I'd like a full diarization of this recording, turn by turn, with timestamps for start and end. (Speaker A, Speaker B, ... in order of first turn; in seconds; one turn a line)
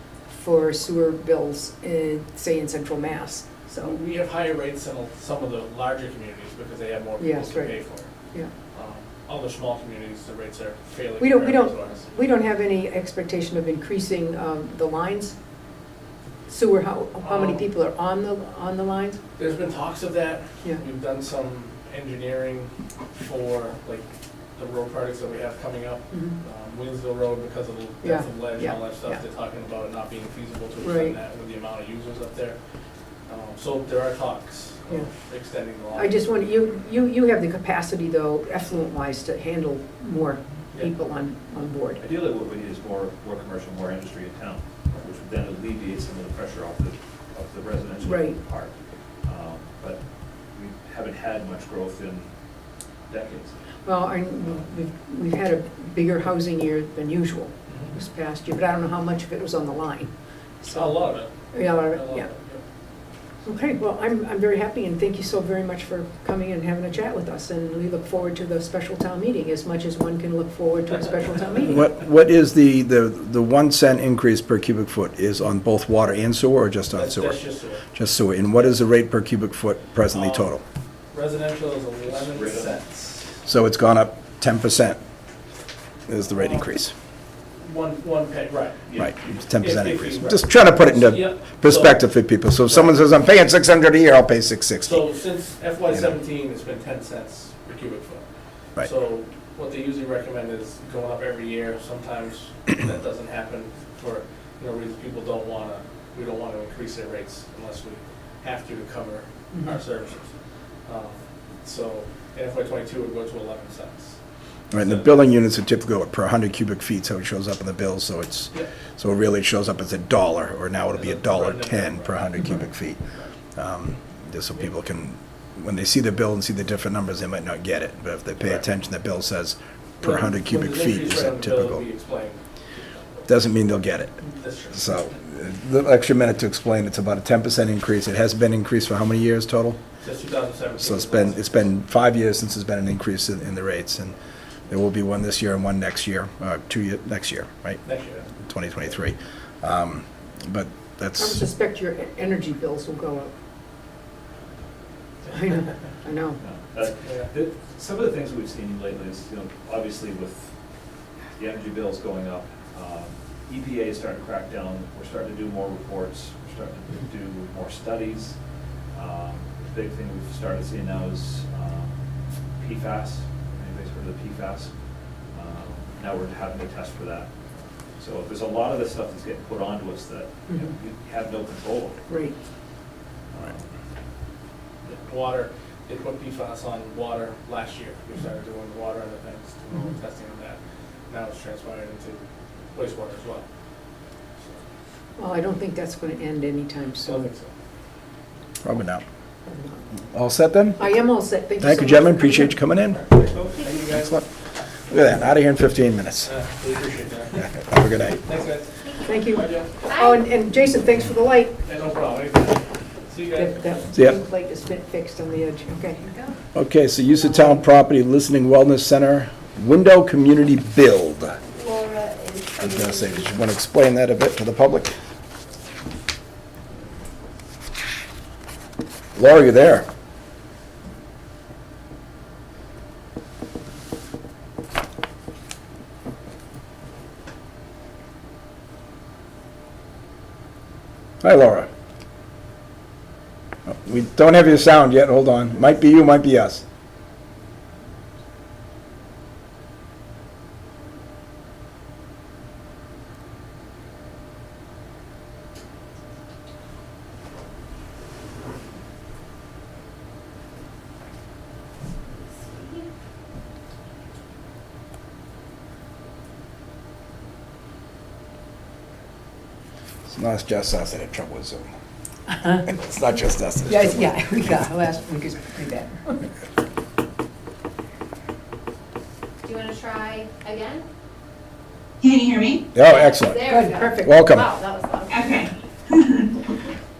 Speaker A: 0.3-4.0
Speaker B: 3.8-8.1
Speaker A: 7.2-7.7
Speaker B: 8.7-12.1
Speaker A: 11.2-15.3
Speaker A: 16.5-19.2
Speaker B: 17.2-17.6
Speaker B: 19.4-32.6
Speaker A: 26.1-26.4
Speaker A: 28.0-29.2
Speaker A: 30.8-31.1
Speaker B: 33.3-36.2
Speaker A: 35.9-42.0
Speaker C: 42.0-50.0
Speaker A: 48.0-48.4
Speaker C: 50.5-52.3
Speaker C: 53.1-53.5
Speaker A: 53.8-60.1
Speaker B: 57.7-57.9
Speaker A: 60.6-61.0
Speaker B: 60.7-62.6
Speaker A: 61.5-62.3
Speaker A: 63.4-71.8
Speaker D: 71.6-77.4
Speaker B: 76.9-77.8
Speaker D: 77.9-80.6
Speaker B: 80.1-80.5
Speaker B: 81.1-83.4
Speaker C: 82.1-82.7
Speaker D: 83.4-85.0
Speaker D: 86.1-86.9
Speaker B: 86.3-86.6
Speaker B: 87.6-88.9
Speaker C: 88.9-89.1
Speaker D: 89.0-95.0
Speaker B: 89.6-92.1
Speaker B: 92.6-93.0
Speaker B: 94.8-98.2
Speaker B: 98.8-110.3
Speaker B: 110.8-114.1
Speaker D: 114.7-123.0
Speaker B: 114.7-115.2
Speaker B: 120.9-122.5
Speaker D: 123.5-131.8
Speaker B: 130.0-133.2
Speaker D: 133.2-139.8
Speaker B: 134.2-134.8
Speaker B: 140.0-141.4
Speaker D: 140.8-144.2
Speaker D: 144.7-147.8
Speaker B: 147.8-148.3
Speaker D: 148.4-151.4
Speaker A: 151.2-153.3
Speaker A: 155.3-156.4
Speaker C: 156.4-160.5
Speaker B: 157.0-157.3
Speaker C: 161.3-168.3
Speaker C: 168.9-171.9
Speaker C: 172.6-174.7
Speaker C: 175.3-177.3
Speaker C: 178.0-182.0
Speaker A: 182.1-182.3
Speaker C: 183.3-183.7
Speaker B: 184.8-192.2
Speaker B: 192.7-193.4
Speaker A: 195.2-197.3
Speaker B: 197.1-197.5
Speaker D: 198.6-199.0
Speaker A: 199.5-199.7
Speaker D: 200.1-200.9
Speaker A: 200.8-202.6
Speaker D: 201.6-203.1
Speaker B: 203.2-204.1
Speaker E: 203.6-203.8
Speaker D: 203.8-204.2
Speaker D: 204.9-206.3
Speaker B: 206.2-207.5
Speaker D: 207.4-208.2
Speaker B: 208.2-209.8
Speaker A: 209.0-211.6
Speaker E: 209.8-210.2
Speaker B: 211.7-213.8
Speaker A: 213.3-216.1
Speaker D: 216.5-221.4
Speaker E: 221.5-223.3
Speaker D: 222.6-224.9
Speaker D: 229.2-229.9
Speaker D: 241.2-241.7
Speaker D: 243.7-246.6
Speaker E: 262.2-262.9
Speaker D: 270.1-271.7
Speaker A: 272.3-272.6
Speaker D: 272.6-274.1
Speaker A: 273.7-276.2
Speaker E: 279.4-280.9
Speaker F: 282.0-282.7
Speaker D: 282.7-284.5
Speaker E: 282.8-285.2
Speaker A: 283.5-284.3
Speaker F: 285.1-286.4